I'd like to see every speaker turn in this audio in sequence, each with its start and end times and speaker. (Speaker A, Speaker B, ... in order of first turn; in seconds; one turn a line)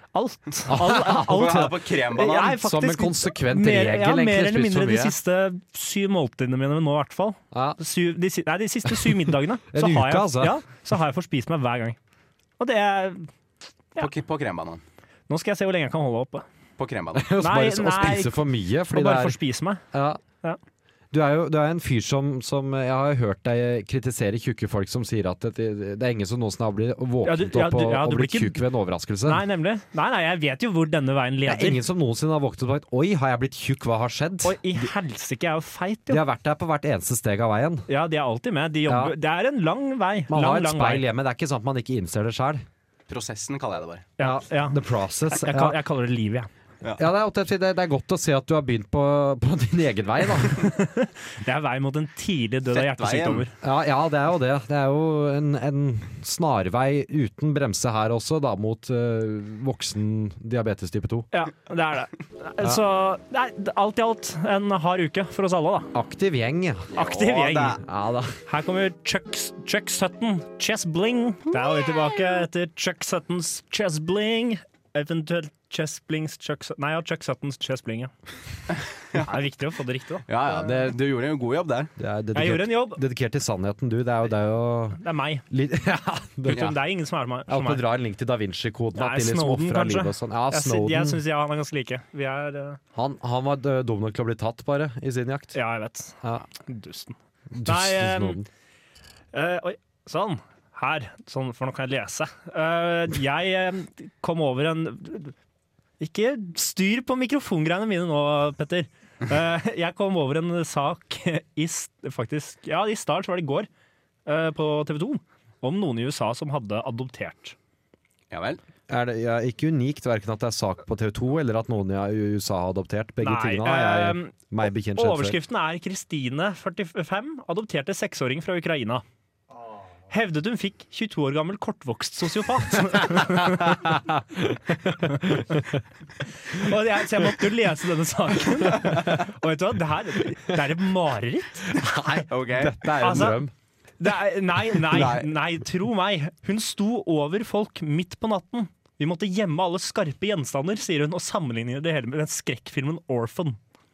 Speaker A: 0.1-12.0
Speaker B: 0.7-1.6
Speaker C: 1.1-2.6
Speaker B: 2.5-5.2
Speaker B: 7.5-7.8
Speaker B: 9.7-10.6
Speaker A: 12.6-13.3
Speaker C: 14.0-14.8
Speaker A: 15.3-16.5
Speaker C: 16.8-17.4
Speaker B: 17.2-19.4
Speaker A: 17.4-18.4
Speaker A: 18.9-19.8
Speaker B: 19.9-20.2
Speaker B: 21.1-29.4
Speaker A: 27.2-28.6
Speaker A: 29.3-31.8
Speaker B: 31.5-34.9
Speaker A: 34.4-36.2
Speaker B: 36.1-37.9
Speaker A: 37.9-41.0
Speaker B: 38.9-39.1
Speaker B: 40.3-42.6
Speaker C: 43.1-44.1
Speaker A: 44.2-46.5
Speaker B: 44.2-45.8
Speaker B: 47.0-50.7
Speaker A: 50.6-53.5
Speaker C: 52.7-53.5
Speaker B: 53.6-61.3
Speaker A: 61.3-65.9
Speaker B: 65.9-66.9
Speaker C: 66.9-67.8
Speaker A: 66.9-67.8
Speaker B: 67.8-68.4
Speaker A: 68.5-78.1
Speaker A: 79.2-80.3
Speaker C: 80.3-81.9
Speaker B: 82.0-86.8
Speaker A: 82.3-83.0
Speaker A: 85.0-85.4
Speaker A: 86.5-87.9
Speaker B: 87.5-91.2
Speaker A: 89.0-92.8
Speaker B: 92.9-95.6
Speaker A: 95.5-98.4
Speaker B: 97.5-98.5
Speaker A: 99.3-105.3
Speaker A: 106.0-113.7
Speaker A: 114.3-117.6
Speaker C: 118.3-118.6
Speaker B: 118.9-125.4
Speaker A: 123.2-124.4
Speaker A: 124.9-129.0
Speaker A: 130.1-133.9
Speaker B: 133.2-135.8
Speaker A: 135.1-135.4
Speaker A: 136.5-141.7
Speaker B: 141.7-143.5
Speaker C: 142.3-142.8
Speaker A: 143.0-143.4
Speaker A: 144.0-153.6
Speaker C: 144.9-145.3